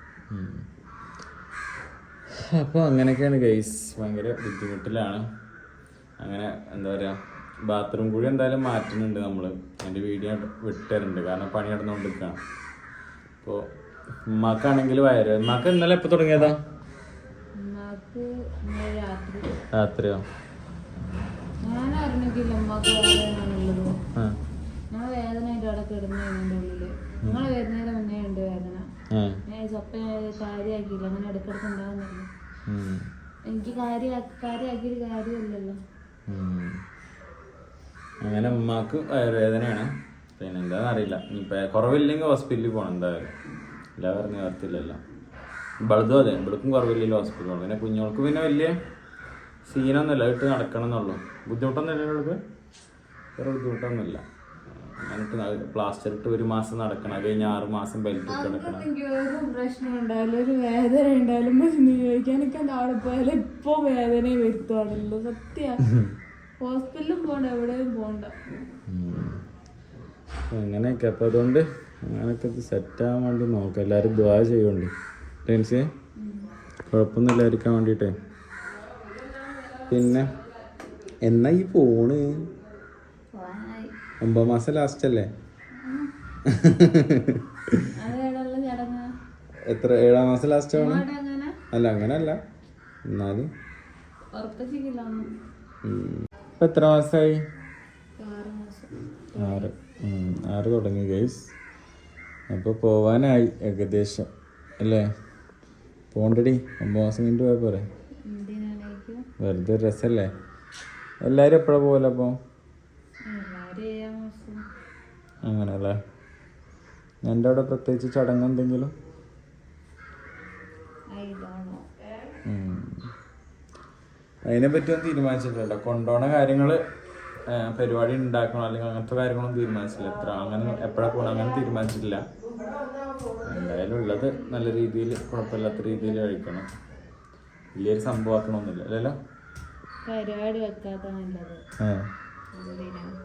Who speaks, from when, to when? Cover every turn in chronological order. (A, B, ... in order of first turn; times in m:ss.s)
0:00.3-0:00.6 A
0:02.3-0:05.2 A
0:06.2-0:12.4 A
0:14.3-0:16.6 A
0:17.6-0:19.5 B
0:19.7-0:20.2 A
0:21.6-0:23.9 B
0:24.9-0:28.8 B
0:29.1-0:29.4 A
0:29.5-0:32.3 B
0:32.7-0:33.0 A
0:33.5-0:35.8 B
0:36.3-0:36.8 A
0:38.2-0:43.3 A
0:44.0-0:45.0 A
0:45.8-0:48.7 A
0:49.6-0:52.4 A
0:53.4-0:54.2 A
0:54.8-0:58.9 A
0:58.3-1:05.8 B
1:06.6-1:08.3 B
1:08.9-1:09.4 A
1:10.5-1:14.9 A
1:15.4-1:15.9 A
1:16.2-1:16.5 B
1:16.9-1:18.1 A
1:19.9-1:20.3 A
1:21.2-1:22.5 A
1:23.3-1:23.9 B
1:24.2-1:25.3 A
1:25.8-1:26.1 B
1:26.4-1:27.9 A
1:27.9-1:29.1 B
1:29.7-1:31.0 A
1:30.7-1:31.6 B
1:31.7-1:32.4 A
1:33.0-1:33.5 A
1:34.3-1:35.3 B
1:35.8-1:37.4 A
1:38.2-1:39.7 B
1:39.4-1:41.5 A
1:42.5-1:44.3 A
1:44.8-1:45.1 A
1:46.1-1:47.8 A
1:48.2-1:49.2 B
1:49.4-1:50.3 A
1:51.2-1:52.4 A
1:53.3-1:54.6 B
1:55.4-1:56.0 A
1:57.2-1:58.9 A
2:01.1-2:01.8 B
2:02.4-2:03.1 A
2:04.4-2:06.8 A
2:07.5-2:12.2 A
2:13.4-2:16.7 A
2:17.7-2:19.2 A
2:20.0-2:21.6 B
2:21.8-2:22.1 A
2:22.5-2:23.1 B